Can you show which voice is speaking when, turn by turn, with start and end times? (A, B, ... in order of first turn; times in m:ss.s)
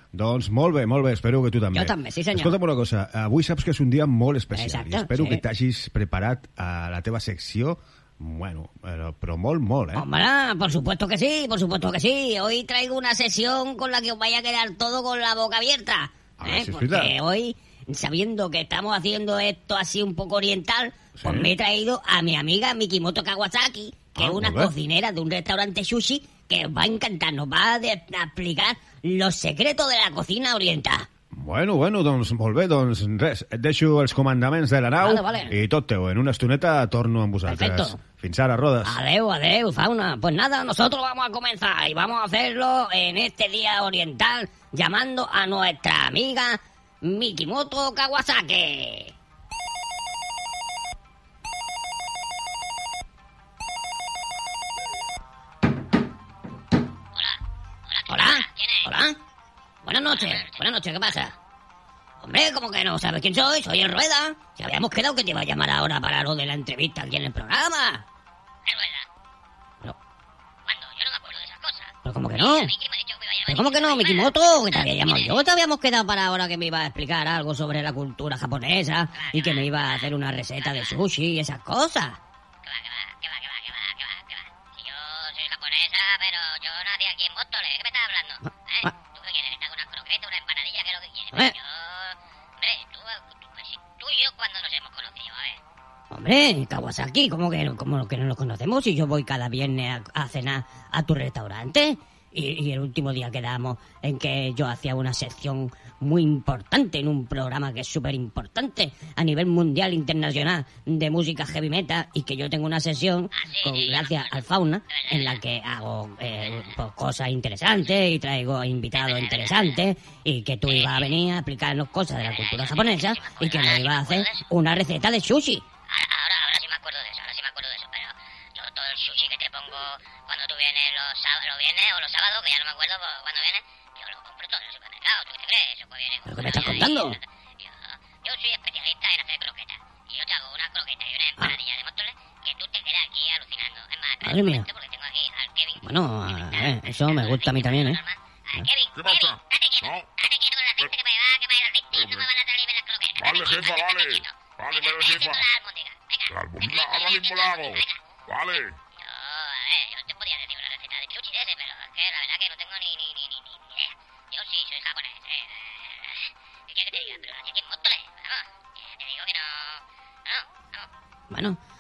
0:00.1-0:10.1 A
0:01.7-0:02.5 B
0:04.5-0:05.4 B
0:10.0-0:31.1 B
0:16.4-0:17.2 A
0:21.2-0:21.5 A
0:24.2-0:24.7 A
0:31.3-0:39.0 A
0:35.0-0:35.5 B
0:37.5-0:38.0 B
0:38.8-0:49.1 B
0:57.9-0:58.9 C
0:58.1-0:59.2 B
0:59.8-1:01.4 B
1:00.1-1:00.6 C
1:02.2-1:08.0 B
1:08.7-1:09.0 C
1:10.7-1:15.5 C
1:12.0-1:12.8 B
1:13.5-1:22.2 B
1:19.2-1:20.1 C
1:20.6-1:21.0 C
1:22.7-1:35.6 C
1:31.3-1:31.6 B
1:36.1-2:05.6 B
1:53.4-1:55.4 C
1:59.0-1:59.8 C
2:00.7-2:01.2 C
2:02.2-2:04.5 C
2:05.9-2:38.0 C
2:16.2-2:17.2 B
2:24.2-2:24.7 B
2:25.8-2:28.0 B
2:29.0-2:30.1 D
2:33.2-2:35.4 D
2:36.3-2:38.8 D
2:39.0-2:46.1 C
2:46.7-2:49.8 C
2:50.3-2:50.8 C
2:51.3-2:51.6 B